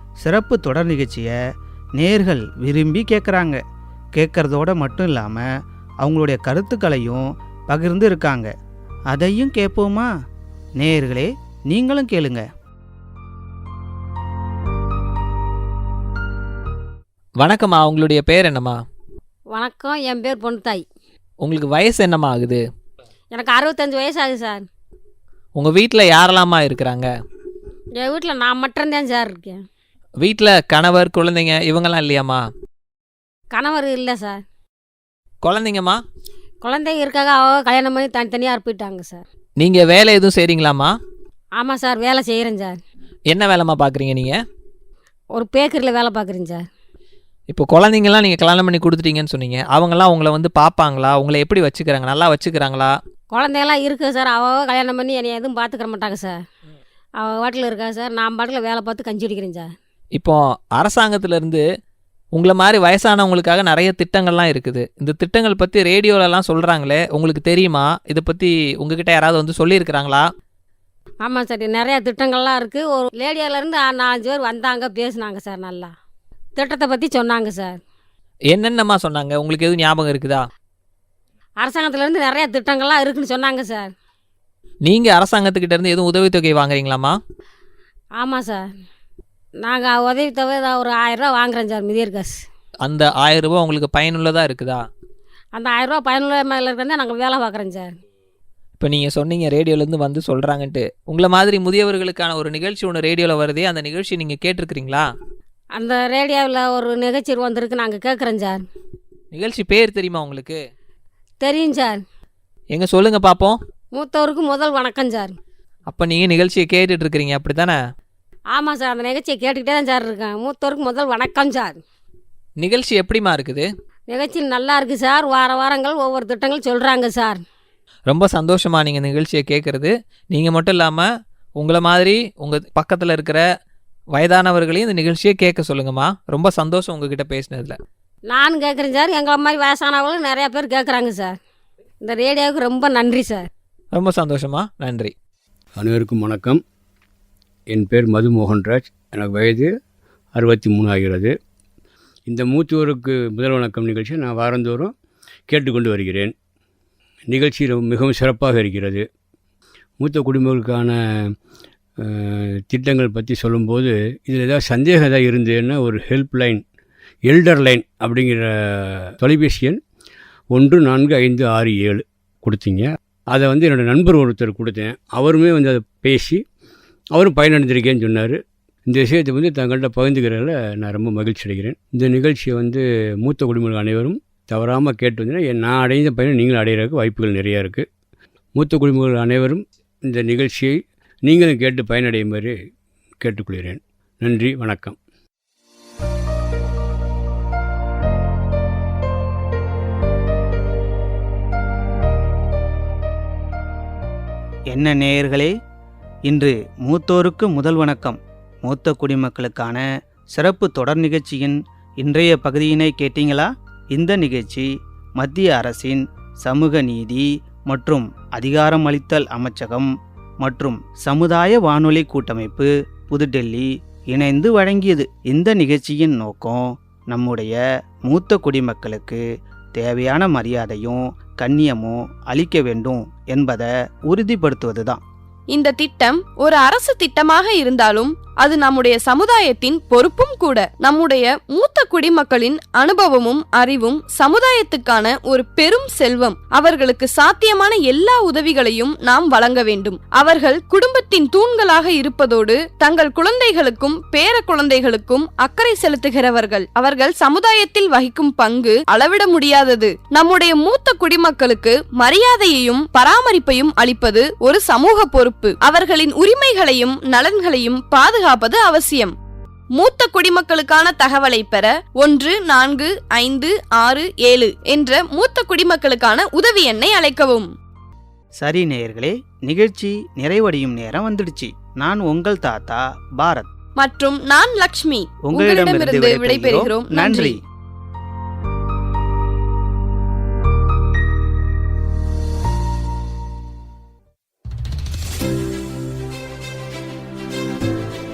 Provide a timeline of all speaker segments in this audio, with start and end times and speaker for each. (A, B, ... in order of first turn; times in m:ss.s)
0:00.2-0:01.3 A
0:02.0-0:03.6 A
0:04.2-0:05.4 A
0:06.0-0:08.5 A
0:09.1-0:10.1 A
0:10.8-0:12.4 A
0:17.4-0:18.8 B
0:19.5-0:20.8 C
0:21.4-0:22.6 B
0:23.3-0:24.6 C
0:25.6-0:27.1 B
0:28.0-0:29.6 C
0:30.2-0:32.4 B
0:33.5-0:34.4 C
0:35.4-0:36.0 B
0:36.6-0:39.2 C
0:39.6-0:40.9 B
0:41.6-0:42.8 C
0:43.3-0:44.4 B
0:45.3-0:46.6 C
0:47.5-0:53.0 B
0:53.3-0:56.4 C
0:57.2-0:59.7 C
1:00.2-1:01.6 B
1:02.3-1:10.3 B
1:11.2-1:15.9 C
1:16.6-1:17.8 C
1:18.5-1:20.4 B
1:21.6-1:23.9 C
1:24.8-1:27.2 B
1:28.2-1:28.6 C
1:29.6-1:32.4 C
1:32.8-1:34.8 B
1:35.5-1:37.9 C
1:38.8-1:45.1 B
1:45.7-1:48.6 C
1:49.3-1:50.6 B
1:51.4-1:52.0 C
1:52.7-1:53.6 B
1:53.9-1:55.4 C
1:55.9-1:57.8 B
1:58.5-2:01.8 C
2:02.6-2:03.6 B
2:04.1-2:07.4 C
2:08.1-2:11.0 B
2:11.6-2:13.4 B
2:14.1-2:17.8 B
2:18.3-2:21.4 C
2:22.0-2:23.5 C
2:23.9-2:25.1 B
2:25.8-2:26.6 D
2:27.7-2:29.7 D
2:30.3-2:31.3 D
2:32.3-2:34.9 D
2:35.5-2:36.3 D
2:37.3-2:39.0 D
2:40.0-2:41.3 D
2:42.0-2:46.6 D
2:47.2-2:49.8 D
2:50.5-2:56.4 D
2:57.1-3:07.9 D
3:08.5-3:12.6 D
3:13.2-3:15.0 D
3:24.7-3:25.5 A
3:26.3-3:34.7 A
3:35.2-3:39.9 A
3:40.4-3:49.2 A
3:49.8-3:55.0 A
3:55.5-4:29.1 E
4:29.8-4:37.5 E
4:38.4-4:43.5 A
4:43.8-4:47.4 E
4:45.3-4:47.4 A